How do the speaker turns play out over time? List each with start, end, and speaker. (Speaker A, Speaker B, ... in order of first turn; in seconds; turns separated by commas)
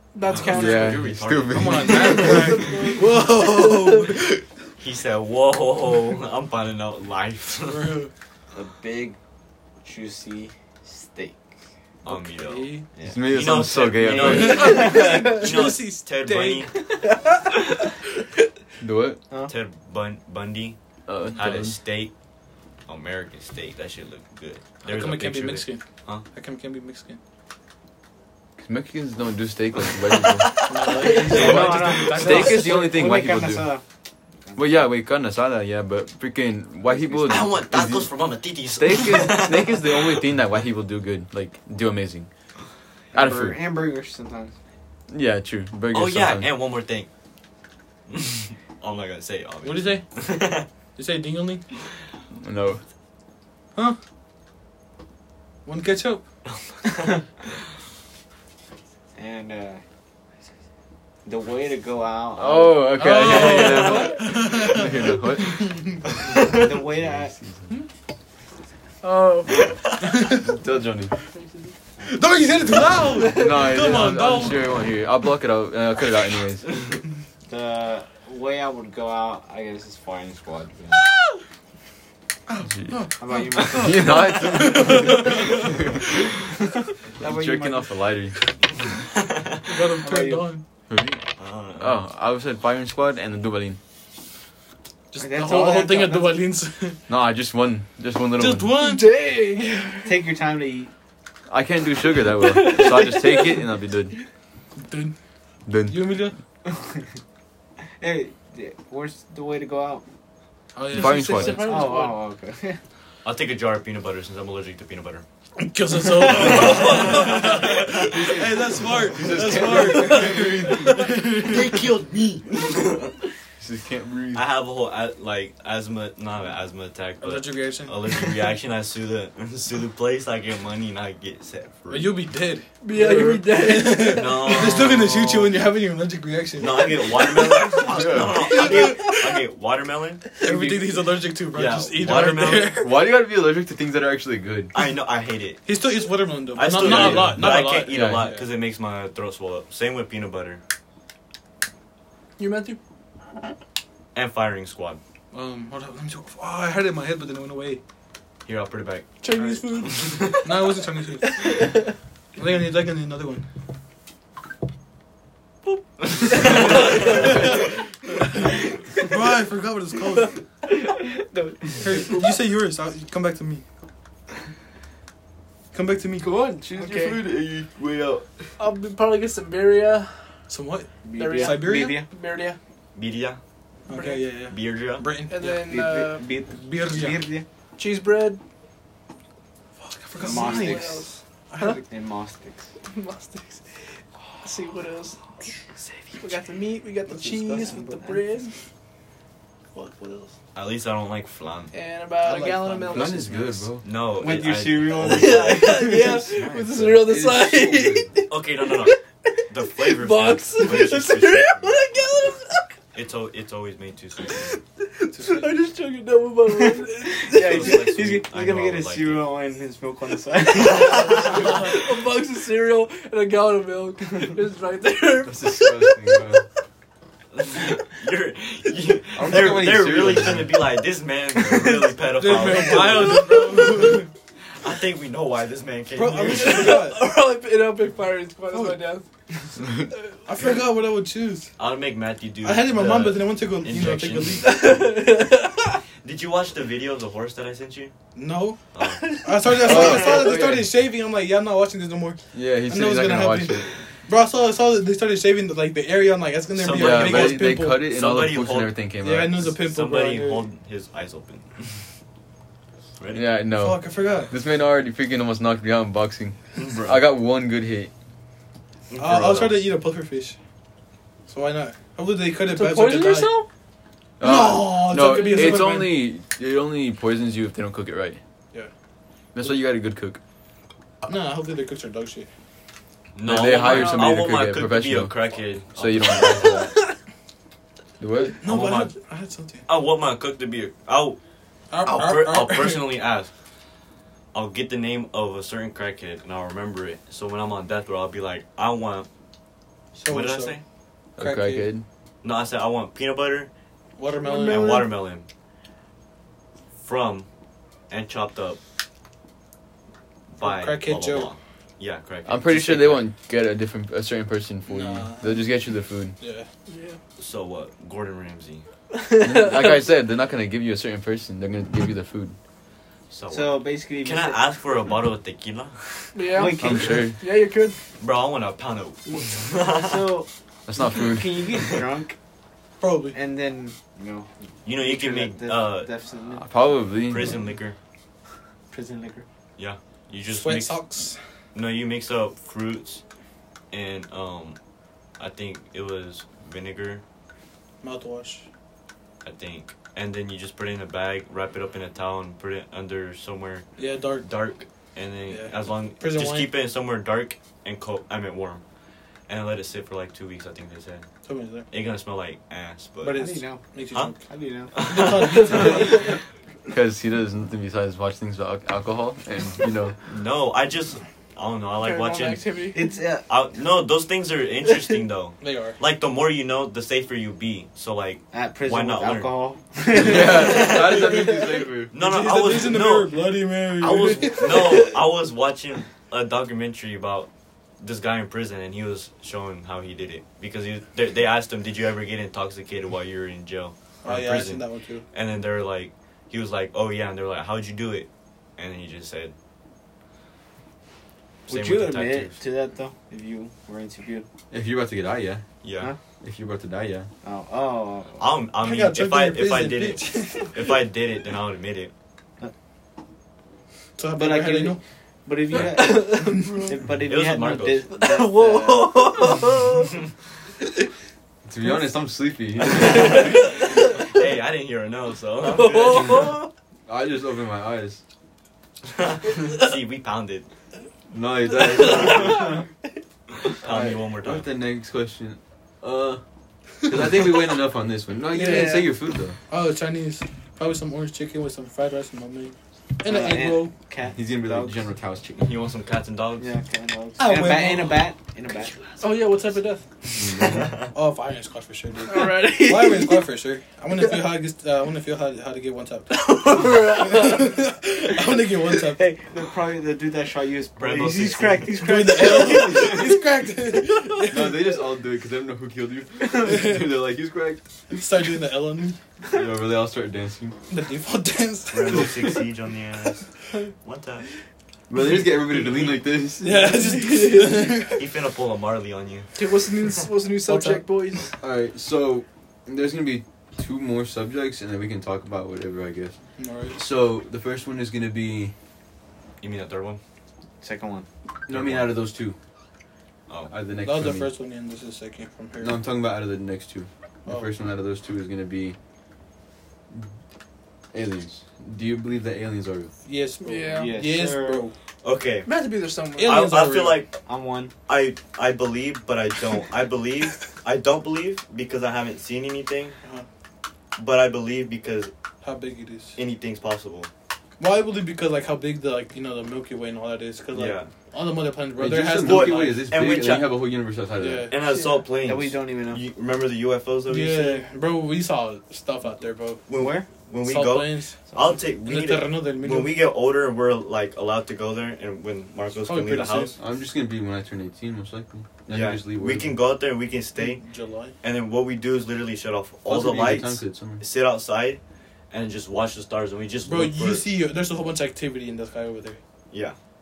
Speaker A: 0.1-1.0, Speaker B: 0.2-2.8, Speaker C: 0.4-2.6, Speaker D: 1.5-4.4, Speaker A: 2.3-4.0, Speaker B: 4.8-8.0, Speaker D: 7.7-8.1, Speaker E: 8.5-9.2, Speaker E: 9.8-11.4, Speaker B: 12.0-16.8, Speaker D: 12.1-12.9, Speaker E: 13.0-13.4, Speaker C: 13.1-14.8, Speaker D: 14.2-16.7, Speaker A: 14.3-15.5, Speaker E: 14.7-15.1, Speaker C: 18.8-19.2, Speaker B: 19.5-20.8, Speaker C: 21.1-21.8, Speaker B: 21.3-22.1, Speaker B: 22.9-26.3, Speaker D: 24.8-27.2, Speaker C: 28.6-30.6, Speaker B: 30.2-32.0, Speaker D: 30.7-33.2, Speaker E: 31.0-33.8, Speaker C: 31.3-33.7, Speaker E: 34.4-35.0, Speaker C: 34.5-38.1, Speaker E: 36.9-37.4, Speaker B: 37.2-40.2, Speaker C: 38.7-42.3, Speaker E: 43.1-44.5, Speaker C: 43.1-43.6, Speaker C: 45.1-46.5, Speaker B: 45.9-47.1, Speaker B: 48.1-50.7, Speaker D: 49.6-50.0, Speaker D: 51.0-51.6, Speaker C: 52.4-52.8, Speaker D: 55.6-56.2, Speaker B: 56.5-57.2, Speaker E: 59.1-59.8, Speaker E: 61.2-63.0, Speaker C: 62.4-65.6, Speaker D: 63.0-66.0, Speaker A: 63.2-64.2, Speaker B: 63.5-64.7, Speaker B: 66.2-66.7, Speaker E: 66.5-67.3, Speaker C: 67.0-67.7, Speaker A: 69.0-69.7, Speaker B: 69.5-70.2, Speaker D: 70.0-70.5, Speaker C: 70.4-71.1, Speaker D: 72.0-74.8, Speaker A: 73.2-74.0, Speaker C: 73.3-76.7, Speaker E: 77.5-81.0, Speaker D: 82.5-85.7, Speaker C: 82.7-83.0, Speaker E: 83.2-84.2, Speaker C: 83.6-86.4, Speaker E: 87.2-88.0, Speaker C: 87.2-88.4, Speaker D: 89.7-90.6, Speaker E: 90.0-90.5, Speaker C: 90.9-93.8, Speaker B: 91.4-92.0, Speaker D: 95.1-97.0, Speaker E: 95.2-96.4, Speaker C: 97.1-98.7, Speaker D: 98.3-99.1, Speaker A: 98.8-100.2, Speaker E: 100.0-100.9, Speaker C: 101.5-104.2, Speaker A: 102.3-103.7, Speaker D: 104.8-105.2, Speaker C: 105.7-106.3, Speaker D: 105.8-106.3, Speaker E: 106.7-107.0, Speaker E: 108.0-110.0, Speaker D: 110.7-111.9, Speaker C: 110.9-111.7, Speaker A: 110.9-112.2, Speaker E: 111.6-112.8, Speaker B: 113.2-115.2, Speaker D: 115.6-121.9, Speaker B: 116.3-118.3, Speaker A: 116.3-117.4, Speaker C: 117.9-121.2, Speaker B: 121.4-123.2, Speaker C: 123.6-124.5, Speaker B: 124.3-132.2, Speaker D: 127.2-128.0, Speaker D: 131.9-139.3, Speaker A: 132.8-134.8, Speaker B: 134.1-135.6, Speaker B: 136.6-140.4, Speaker C: 137.8-138.8, Speaker D: 140.4-143.0, Speaker C: 140.5-140.8, Speaker B: 141.5-142.8, Speaker C: 142.1-144.7, Speaker B: 144.7-145.6, Speaker D: 145.7-148.4, Speaker B: 146.5-150.6, Speaker C: 146.7-148.3, Speaker A: 152.4-152.8, Speaker B: 154.1-155.0, Speaker D: 155.3-157.8, Speaker B: 158.4-160.4, Speaker A: 159.2-160.5, Speaker D: 160.4-161.7, Speaker A: 161.4-161.9, Speaker D: 162.4-163.5, Speaker A: 165.7-167.1, Speaker B: 166.4-167.2, Speaker D: 166.5-167.7, Speaker D: 169.0-170.4, Speaker E: 170.8-172.3, Speaker D: 171.8-173.6, Speaker D: 175.7-176.3, Speaker C: 176.2-178.5, Speaker A: 176.8-177.2, Speaker A: 178.6-180.1, Speaker D: 180.5-182.0, Speaker E: 181.0-182.1, Speaker A: 181.2-182.6, Speaker B: 182.9-183.4, Speaker D: 183.9-185.5, Speaker A: 183.9-184.3, Speaker B: 184.5-185.1, Speaker A: 185.3-186.3, Speaker E: 185.4-187.5, Speaker D: 186.6-187.2, Speaker A: 187.8-188.4, Speaker D: 189.8-191.8, Speaker E: 190.2-191.1, Speaker A: 190.2-191.8, Speaker E: 191.6-192.7, Speaker A: 192.9-193.7, Speaker A: 194.4-195.2, Speaker A: 196.2-198.5, Speaker E: 197.2-198.2, Speaker A: 199.8-200.3, Speaker B: 200.5-201.7, Speaker A: 201.7-203.6, Speaker D: 202.2-203.5, Speaker C: 202.9-203.9, Speaker B: 203.8-207.0, Speaker E: 204.2-206.2, Speaker A: 205.0-212.7, Speaker C: 206.7-208.2, Speaker B: 208.3-211.8, Speaker B: 212.9-214.6, Speaker A: 214.8-217.8, Speaker D: 215.1-215.6, Speaker E: 216.5-221.7, Speaker B: 217.3-219.3, Speaker A: 220.5-226.4, Speaker B: 220.8-221.6, Speaker C: 225.2-226.4, Speaker B: 227.3-233.9, Speaker C: 229.1-230.6, Speaker A: 231.4-234.1, Speaker D: 232.2-234.1, Speaker B: 234.6-236.9, Speaker D: 236.0-237.0, Speaker A: 236.3-239.1, Speaker D: 238.5-238.8, Speaker D: 240.2-241.5, Speaker B: 241.6-244.9, Speaker D: 242.4-244.7, Speaker A: 244.4-245.8, Speaker B: 246.0-247.9, Speaker D: 248.2-248.6, Speaker B: 248.7-250.1, Speaker A: 248.8-249.3, Speaker D: 249.2-257.9, Speaker C: 249.6-250.7, Speaker C: 252.3-253.7, Speaker B: 256.6-258.8, Speaker C: 256.7-259.5, Speaker D: 259.0-260.5, Speaker B: 259.5-261.5, Speaker B: 263.0-263.3, Speaker C: 263.1-267.9, Speaker D: 263.5-264.4, Speaker B: 266.6-267.1, Speaker B: 268.9-269.7, Speaker D: 269.0-270.4, Speaker D: 271.3-273.3, Speaker A: 272.6-273.5, Speaker D: 274.2-276.1, Speaker C: 274.2-278.2, Speaker A: 275.0-275.8, Speaker C: 279.3-280.2, Speaker D: 281.0-282.3, Speaker B: 283.1-286.7, Speaker C: 283.2-285.1, Speaker A: 283.5-284.2, Speaker C: 285.7-286.8, Speaker C: 288.0-288.4, Speaker D: 288.4-289.6, Speaker B: 288.4-288.9, Speaker B: 289.7-291.2, Speaker D: 291.7-292.9, Speaker B: 291.9-293.3, Speaker B: 294.3-299.1, Speaker D: 299.9-300.6, Speaker B: 300.1-300.6, Speaker C: 301.2-301.9, Speaker D: 301.2-301.7, Speaker B: 302.2-303.5, Speaker D: 304.0-304.9, Speaker A: 304.2-304.9, Speaker B: 304.4-305.2, Speaker B: 306.8-307.3, Speaker B: 307.9-308.6, Speaker B: 310.3-313.0, Speaker D: 310.4-311.3, Speaker C: 312.3-316.2, Speaker D: 314.7-315.6, Speaker D: 316.2-316.5, Speaker A: 316.7-317.0, Speaker B: 317.2-318.6, Speaker A: 318.9-319.8, Speaker C: 319.2-322.4, Speaker B: 323.1-325.9, Speaker E: 323.3-324.4, Speaker A: 326.1-327.8, Speaker E: 326.3-327.1, Speaker C: 326.6-327.2, Speaker B: 328.0-330.1, Speaker E: 329.1-330.3, Speaker C: 330.7-331.5, Speaker E: 330.9-332.1, Speaker D: 332.8-333.2, Speaker E: 333.1-336.5, Speaker B: 334.6-335.9, Speaker C: 336.3-337.4, Speaker B: 337.1-337.8, Speaker E: 338.7-339.3, Speaker B: 339.6-343.0, Speaker D: 340.3-341.2, Speaker B: 343.7-344.6, Speaker B: 345.2-347.0, Speaker D: 347.8-348.4, Speaker B: 349.2-353.7, Speaker D: 353.8-354.3, Speaker B: 354.2-358.6, Speaker D: 355.3-356.5, Speaker B: 359.3-361.1, Speaker D: 361.2-361.7, Speaker B: 361.7-363.2, Speaker D: 363.0-364.2, Speaker E: 363.1-364.8, Speaker B: 364.7-366.1, Speaker D: 364.8-366.2, Speaker C: 366.7-370.0, Speaker B: 370.1-372.4, Speaker A: 371.8-372.9, Speaker E: 372.7-373.2, Speaker B: 373.3-379.3, Speaker D: 375.4-375.8, Speaker E: 378.3-380.8, Speaker C: 379.9-381.9, Speaker B: 380.0-381.1, Speaker D: 380.6-384.8, Speaker B: 381.9-383.2, Speaker B: 383.8-399.3, Speaker A: 384.5-384.8, Speaker D: 394.0-395.1, Speaker E: 401.5-404.3, Speaker B: 401.5-402.4, Speaker C: 404.5-405.4, Speaker B: 405.6-405.9, Speaker C: 406.2-407.1, Speaker E: 407.2-408.3, Speaker B: 408.2-411.9, Speaker D: 408.6-410.5, Speaker D: 414.0-414.8, Speaker E: 414.1-419.2, Speaker A: 415.7-416.7, Speaker D: 416.1-416.6, Speaker B: 417.1-417.9, Speaker A: 417.9-419.9, Speaker C: 421.4-423.5, Speaker A: 422.8-423.5, Speaker B: 422.8-426.3, Speaker A: 425.5-426.5, Speaker C: 426.9-428.0, Speaker B: 428.9-430.5, Speaker C: 431.1-432.6, Speaker A: 431.6-432.5, Speaker B: 433.5-434.5, Speaker C: 433.6-436.2, Speaker C: 436.8-439.4, Speaker D: 438.3-438.9, Speaker A: 438.3-438.9, Speaker D: 439.5-443.7, Speaker E: 443.0-444.8, Speaker C: 444.1-445.6, Speaker B: 445.4-446.5, Speaker E: 446.4-448.7, Speaker D: 447.2-448.1, Speaker A: 449.0-449.8, Speaker C: 450.1-450.7, Speaker B: 450.4-450.8, Speaker D: 450.9-456.1, Speaker A: 452.1-453.2, Speaker A: 456.1-457.6, Speaker D: 457.0-459.0, Speaker E: 458.7-463.1, Speaker B: 460.8-461.8, Speaker D: 461.7-464.7, Speaker C: 464.2-468.0, Speaker D: 466.4-466.8, Speaker D: 467.9-469.0, Speaker C: 469.3-470.6, Speaker D: 470.7-472.1, Speaker B: 471.7-473.3, Speaker B: 473.8-474.3, Speaker C: 474.9-476.9, Speaker D: 475.0-478.1, Speaker A: 476.7-477.8, Speaker B: 478.0-479.3, Speaker A: 479.4-481.3, Speaker D: 480.5-480.8, Speaker C: 481.4-486.2, Speaker D: 486.4-486.8, Speaker C: 486.7-488.5, Speaker B: 489.4-490.0, Speaker E: 490.6-491.1, Speaker C: 491.5-492.4, Speaker B: 491.5-491.9, Speaker C: 493.5-494.3, Speaker D: 493.8-495.8, Speaker C: 495.6-498.8, Speaker D: 497.3-497.5, Speaker C: 500.9-502.9, Speaker D: 503.1-504.7, Speaker A: 503.4-503.9, Speaker E: 503.7-504.7, Speaker B: 505.0-505.5, Speaker A: 505.4-506.4, Speaker D: 506.2-507.0, Speaker B: 506.2-507.2, Speaker E: 507.3-507.7, Speaker B: 507.9-513.0, Speaker B: 514.0-515.1, Speaker D: 515.4-516.2, Speaker B: 516.1-517.1, Speaker D: 517.6-522.9, Speaker B: 520.5-520.9, Speaker C: 521.8-524.5, Speaker B: 522.2-523.7, Speaker D: 524.2-524.5, Speaker B: 524.5-527.6, Speaker A: 524.7-525.0, Speaker E: 525.2-526.0, Speaker D: 527.1-529.6, Speaker B: 529.7-536.6, Speaker E: 529.8-530.1, Speaker D: 530.4-531.2, Speaker D: 531.9-533.0, Speaker D: 535.8-536.6, Speaker C: 536.6-539.6, Speaker B: 538.7-540.6, Speaker D: 540.4-541.1, Speaker B: 541.2-544.8, Speaker C: 542.9-544.0, Speaker B: 545.3-547.2, Speaker D: 546.6-549.2, Speaker B: 549.5-549.8